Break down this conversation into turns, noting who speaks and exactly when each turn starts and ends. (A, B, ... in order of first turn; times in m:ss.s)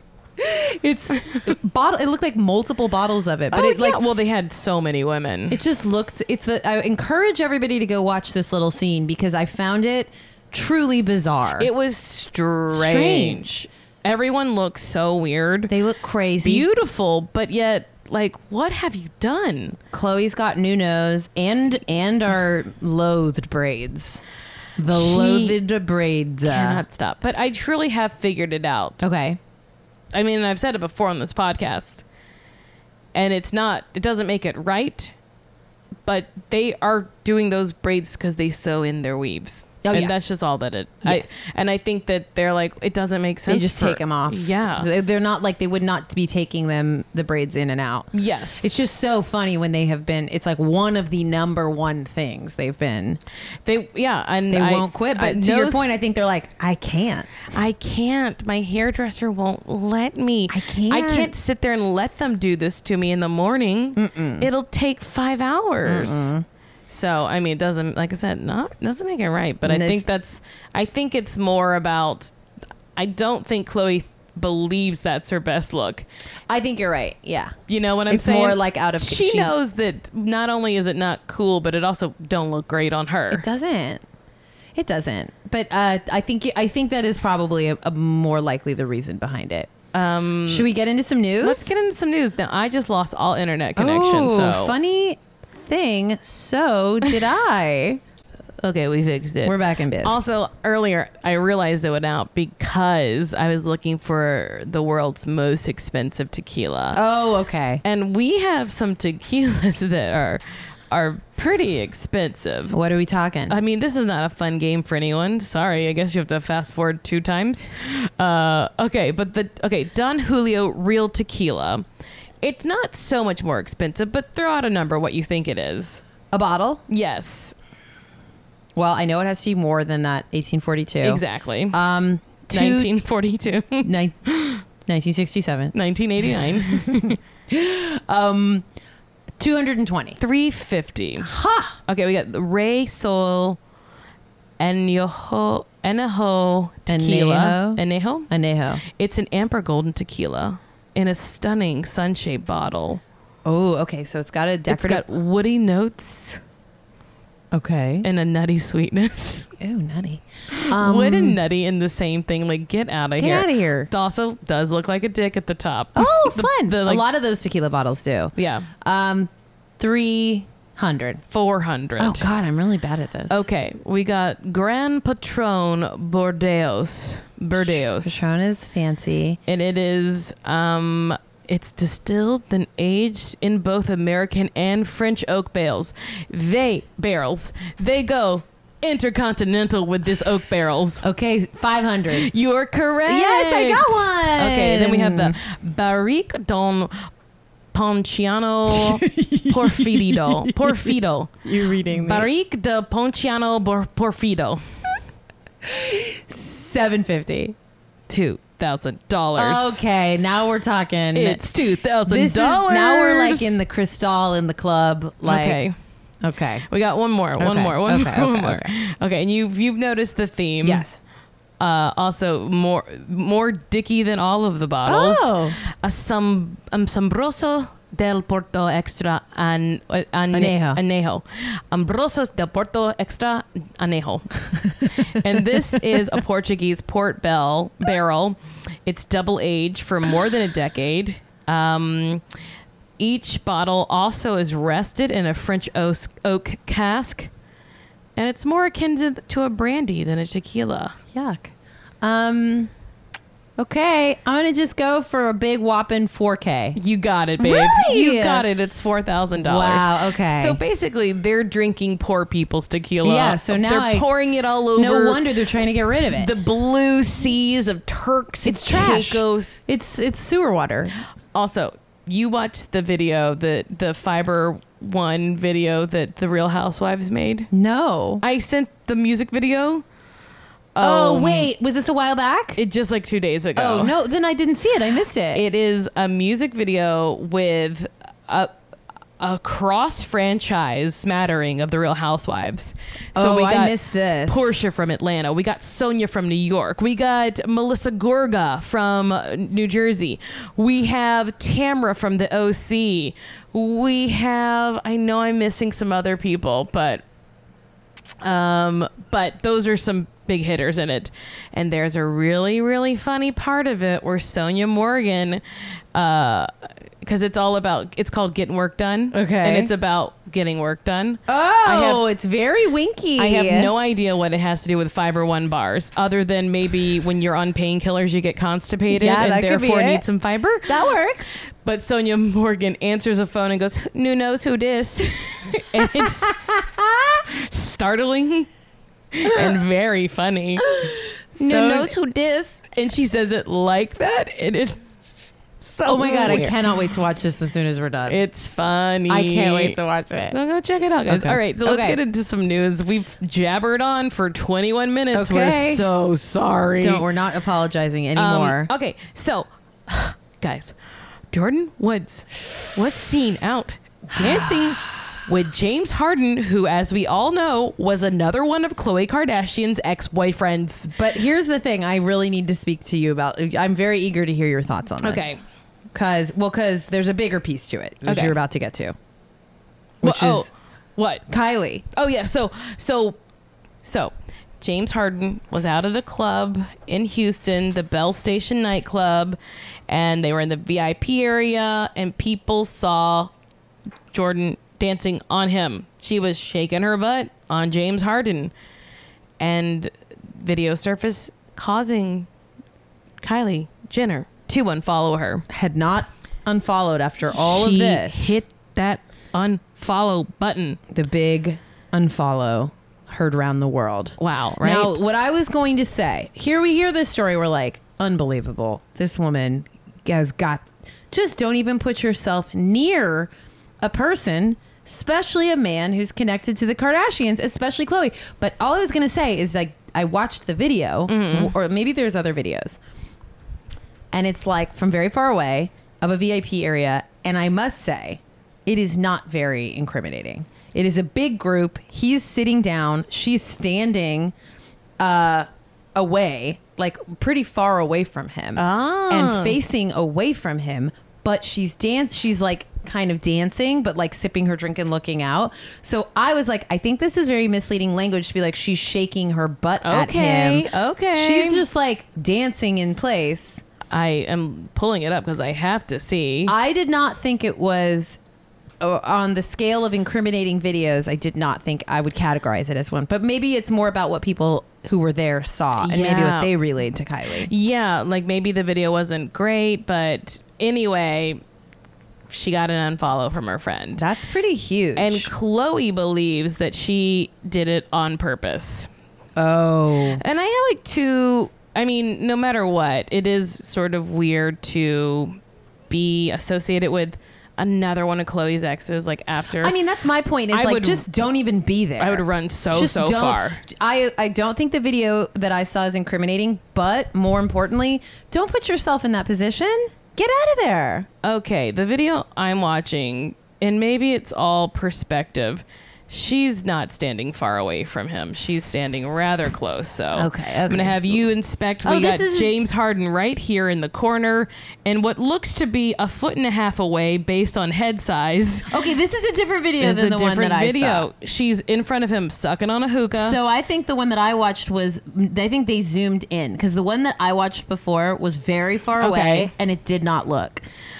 0:00.4-0:04.0 A
0:03.5-0:05.6 B
0:05.5-0:11.7 A
0:11.6-0:15.7 B
0:12.7-0:13.6 A
0:15.7-0:16.7 A
0:16.4-0:19.8 B
0:19.9-0:24.2 A
0:24.8-0:26.8 A
0:24.9-0:25.6 B
0:26.4-0:29.0 B
0:29.0-0:29.4 A
0:30.1-0:32.0 B
0:33.1-0:35.1 B
0:36.0-0:44.9 B
0:39.8-0:40.3 A
0:43.5-0:53.2 A
0:48.1-0:48.8 B
0:53.6-0:55.9 B
0:54.5-0:57.4 A
0:57.5-1:06.3 B
1:00.5-1:01.3 A
1:04.0-1:04.5 A
1:05.8-1:06.4 A
1:06.9-1:12.3 B
1:09.6-1:10.0 A
1:13.0-1:16.0 B
1:16.5-1:17.6 A
1:17.7-1:23.4 B
1:18.1-1:19.5 A
1:23.3-1:24.0 A
1:24.7-1:29.7 A
1:29.9-1:30.7 B
1:30.5-1:31.7 A
1:31.4-1:34.7 B
1:33.8-1:38.0 A
1:38.6-1:47.0 B
1:39.4-1:40.2 A
1:46.9-1:47.8 A
1:47.8-1:52.8 B
1:52.7-1:53.6 A
1:53.5-2:01.8 B
2:02.4-2:06.0 B
2:06.3-2:06.8 A
2:06.9-2:07.5 B
2:08.8-2:12.9 A
2:11.0-2:11.8 B
2:12.5-2:14.6 B
2:13.8-2:14.2 A
2:14.8-2:15.7 A
2:15.7-2:17.2 B
2:16.8-2:18.6 A
2:19.4-2:20.2 A
2:20.2-2:21.3 B
2:21.2-2:21.8 A
2:21.8-2:23.6 B
2:24.6-2:28.3 B
2:26.9-2:28.8 A
2:28.8-2:33.0 B
2:33.4-2:35.0 A
2:34.7-2:36.4 B
2:37.5-2:38.0 A
2:38.0-2:39.5 B
2:39.6-2:41.4 A
2:40.5-2:47.0 B
2:43.2-2:43.9 A
2:46.0-2:51.2 A
2:48.4-2:48.7 B
2:51.3-2:52.3 B
2:52.0-2:53.4 A
2:53.3-2:58.2 B
2:57.6-2:59.4 A
2:59.5-3:11.0 B
3:11.0-3:12.3 A
3:12.1-3:17.1 B
3:13.0-3:15.4 A
3:17.7-3:24.6 B
3:18.7-3:22.3 A
3:25.6-3:27.5 A
3:28.1-3:29.8 B
3:29.4-3:31.4 A
3:31.1-3:33.6 B
3:32.0-3:35.6 A
3:35.2-3:35.7 B
3:36.2-3:36.6 A
3:36.7-3:40.8 B
3:37.4-3:38.7 A
3:40.6-3:41.0 A
3:41.6-3:54.4 B
3:44.8-3:45.6 A
3:50.3-3:50.8 A
3:54.9-4:02.2 B
4:03.0-4:07.3 B
4:08.2-4:11.0 B
4:11.1-4:12.7 A
4:13.6-4:16.8 A
4:16.7-4:25.2 B
4:17.4-4:18.4 A
4:19.4-4:20.6 A
4:23.0-4:24.1 A
4:24.7-4:26.3 A
4:26.1-4:29.6 B
4:28.4-4:30.9 A
4:31.3-4:37.5 B
4:37.5-4:38.2 A
4:38.2-4:39.8 B
4:40.7-4:41.5 B
4:40.8-4:42.6 A
4:42.6-4:44.0 B
4:43.6-4:45.4 A
4:45.3-4:48.5 B
4:49.2-4:53.7 B
4:53.1-4:54.5 A
4:54.2-5:07.0 B
5:08.2-5:15.4 B
5:15.9-5:16.5 B
5:17.0-5:22.0 B
5:19.1-5:19.7 A
5:21.3-5:23.7 A
5:23.2-5:30.9 B
5:28.9-5:30.0 A
5:30.6-5:31.4 A
5:31.4-5:36.3 B
5:35.8-5:37.2 A
5:37.3-5:38.5 B
5:39.1-5:40.7 B
5:40.6-5:42.0 A
5:41.4-5:46.6 B
5:45.8-5:48.2 A
5:48.1-5:49.8 B
5:49.1-5:50.4 A
5:50.3-5:57.0 B
5:51.1-5:52.0 A
5:55.1-5:55.8 A
5:56.8-5:58.7 A
5:58.2-6:00.7 B
6:01.3-6:10.9 B
6:04.2-6:04.8 A
6:10.8-6:15.4 A
6:15.0-6:15.4 B
6:15.9-6:18.9 A
6:18.0-6:18.3 B
6:20.0-6:20.5 A
6:20.0-6:21.2 B
6:21.3-6:21.8 A
6:21.9-6:23.2 B
6:23.8-6:33.3 B
6:34.1-6:38.5 B
6:39.4-6:42.3 B
6:43.2-6:45.4 B
6:45.5-6:48.4 A
6:47.4-6:50.8 B
6:50.9-7:12.8 A
6:54.2-6:55.0 B
7:11.1-7:11.5 B
7:14.1-7:24.3 A
7:25.0-7:43.6 A
7:28.6-7:29.6 B
7:39.8-7:41.6 B
7:43.9-7:46.5 B
7:46.4-7:48.2 A
7:48.8-7:57.5 A
7:55.8-7:56.5 B
7:57.4-8:01.4 B
8:02.3-8:04.0 B
8:04.0-8:05.3 A
8:05.0-8:08.9 B
8:09.4-8:10.2 A
8:10.2-8:15.4 B
8:15.9-8:19.7 B
8:19.6-8:31.1 A
8:20.5-8:21.0 B
8:22.0-8:23.6 B
8:31.2-8:48.7 B
8:40.1-8:41.2 A
8:41.8-8:42.5 A
8:48.7-8:51.1 A
8:49.8-8:53.4 B
8:53.1-9:00.6 A
8:59.0-8:59.5 B